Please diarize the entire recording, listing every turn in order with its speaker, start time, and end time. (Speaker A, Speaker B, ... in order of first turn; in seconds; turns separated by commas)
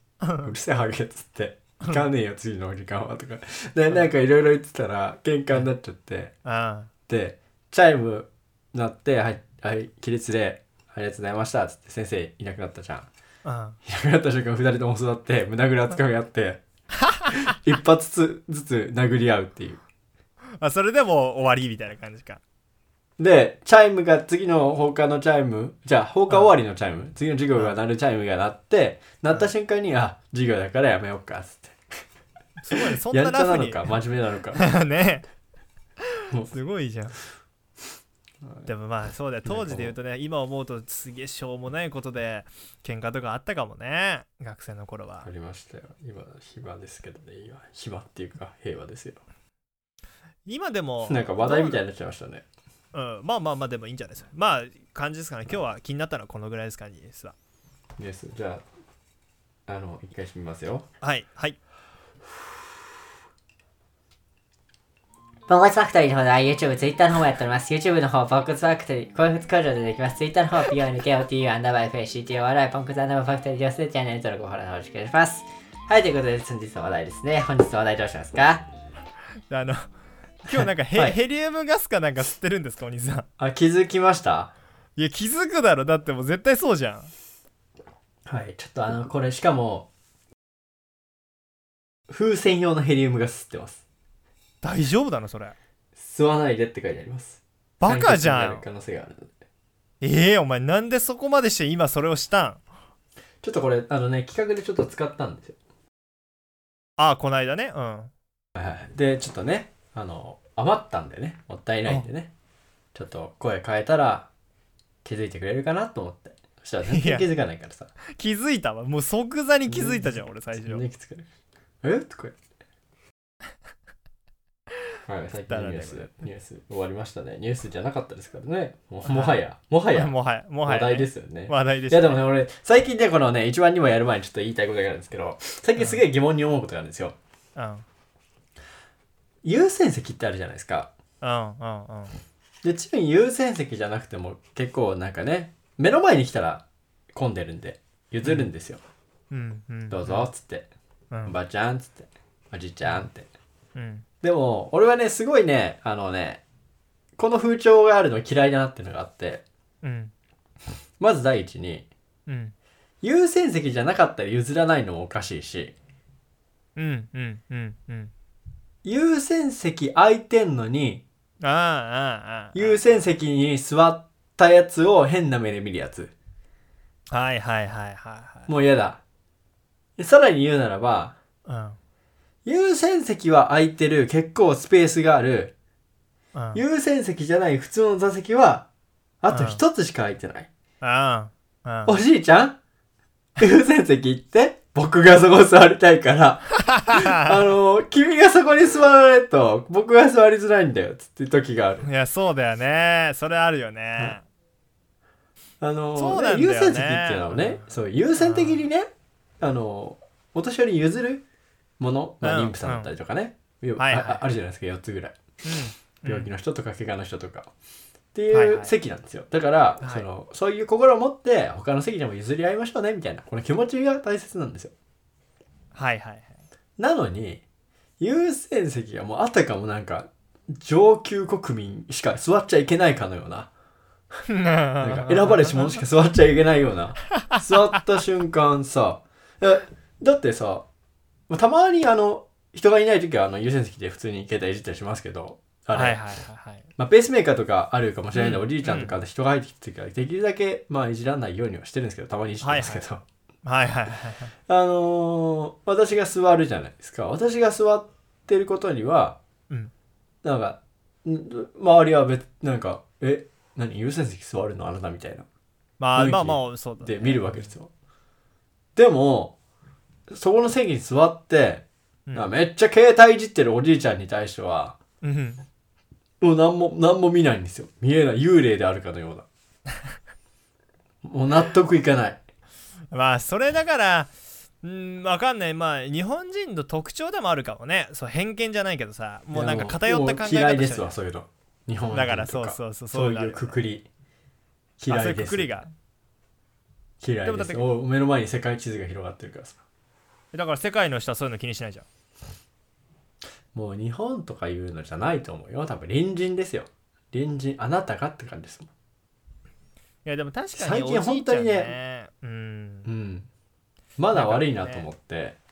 Speaker A: 0.2-0.5, Speaker B: 0.4-6.3, Speaker A: 6.4-6.9, Speaker B: 7.1-13.1, Speaker A: 13.4-13.8, Speaker B: 13.8-16.6, Speaker B: 17.3-19.8, Speaker A: 20.6-22.4, Speaker B: 23.2-31.8, Speaker A: 32.6-34.0, Speaker B: 32.7-34.6, Speaker A: 34.5-35.2, Speaker A: 36.5-37.1, Speaker B: 38.4-38.7, Speaker A: 38.7-45.3, Speaker B: 39.4-39.9, Speaker B: 45.2-49.2, Speaker A: 50.5-51.8, Speaker B: 51.1-52.4, Speaker A: 52.9-57.3, Speaker B: 58.0-58.6, Speaker B: 59.7-60.9, Speaker A: 61.0-61.6, Speaker C: 65.5-78.7, Speaker A: 79.5-79.8, Speaker A: 80.5-83.2, Speaker B: 80.5-81.2, Speaker B: 83.4-84.5, Speaker A: 85.0-87.1, Speaker B: 88.3-89.9, Speaker B: 92.1-93.8, Speaker A: 94.6-95.5, Speaker B: 96.0-99.3, Speaker A: 97.8-98.6, Speaker A: 100.0-102.6, Speaker B: 103.4-105.5, Speaker A: 107.0-108.1, Speaker B: 108.5-112.3, Speaker B: 112.9-114.3, Speaker B: 115.0-117.9, Speaker A: 116.9-117.3, Speaker A: 118.1-120.8, Speaker B: 119.7-121.3, Speaker B: 121.8-122.3, Speaker B: 125.0-130.1, Speaker A: 125.5-126.2, Speaker A: 129.1-129.4, Speaker A: 129.9-132.2, Speaker B: 130.6-137.2, Speaker A: 135.8-136.0, Speaker A: 137.6-137.8, Speaker B: 139.4-140.9, Speaker A: 141.2-142.2, Speaker B: 142.6-148.8, Speaker A: 148.2-148.5, Speaker A: 149.3-150.3, Speaker B: 149.9-150.7, Speaker B: 151.2-153.3, Speaker A: 153.7-154.0, Speaker B: 154.2-156.4, Speaker B: 157.2-159.4, Speaker A: 159.8-160.1, Speaker B: 161.0-161.9, Speaker A: 162.3-162.5, Speaker B: 163.0-165.7, Speaker A: 166.8-168.1, Speaker B: 168.8-171.0, Speaker A: 171.4-173.0, Speaker B: 172.5-176.1, Speaker A: 177.1-178.5, Speaker B: 178.5-179.0, Speaker B: 180.0-181.2, Speaker A: 181.4-181.8, Speaker B: 182.4-185.5, Speaker A: 186.3-186.6, Speaker B: 186.5-188.7, Speaker B: 189.2-190.5, Speaker A: 189.3-189.6, Speaker A: 190.8-192.0, Speaker B: 191.8-192.6, Speaker B: 193.4-201.9, Speaker A: 196.6-197.1, Speaker A: 201.8-204.2, Speaker B: 205.6-208.9, Speaker A: 205.9-208.6, Speaker B: 209.4-211.2, Speaker B: 211.8-215.2, Speaker A: 212.2-212.9, Speaker A: 213.8-214.2, Speaker A: 215.4-216.3, Speaker B: 216.0-217.5, Speaker B: 218.1-224.7, Speaker A: 218.3-218.7, Speaker A: 219.8-220.1, Speaker A: 225.7-226.4, Speaker B: 226.8-227.4, Speaker B: 228.0-233.5, Speaker A: 234.3-235.8, Speaker B: 234.8-240.7, Speaker B: 241.3-246.0, Speaker A: 245.7-246.7, Speaker B: 246.8-253.0, Speaker A: 248.1-249.0, Speaker A: 252.4-252.8, Speaker A: 253.4-254.3, Speaker B: 254.5-259.2, Speaker B: 260.2-265.2, Speaker A: 265.8-267.5, Speaker B: 265.9-267.7, Speaker B: 268.8-269.4, Speaker B: 270.1-274.8, Speaker A: 275.0-275.4, Speaker B: 276.2-279.3, Speaker B: 281.0-282.2, Speaker A: 282.9-284.1, Speaker A: 284.6-290.9, Speaker B: 289.3-293.9, Speaker A: 291.9-293.6, Speaker B: 294.8-295.5, Speaker A: 294.9-295.7, Speaker B: 297.0-299.6, Speaker A: 297.2-297.6, Speaker A: 300.3-301.9, Speaker B: 303.5-308.7, Speaker A: 310.0-312.9, Speaker B: 310.5-311.7, Speaker B: 312.8-313.3, Speaker B: 314.0-315.4, Speaker A: 314.1-314.9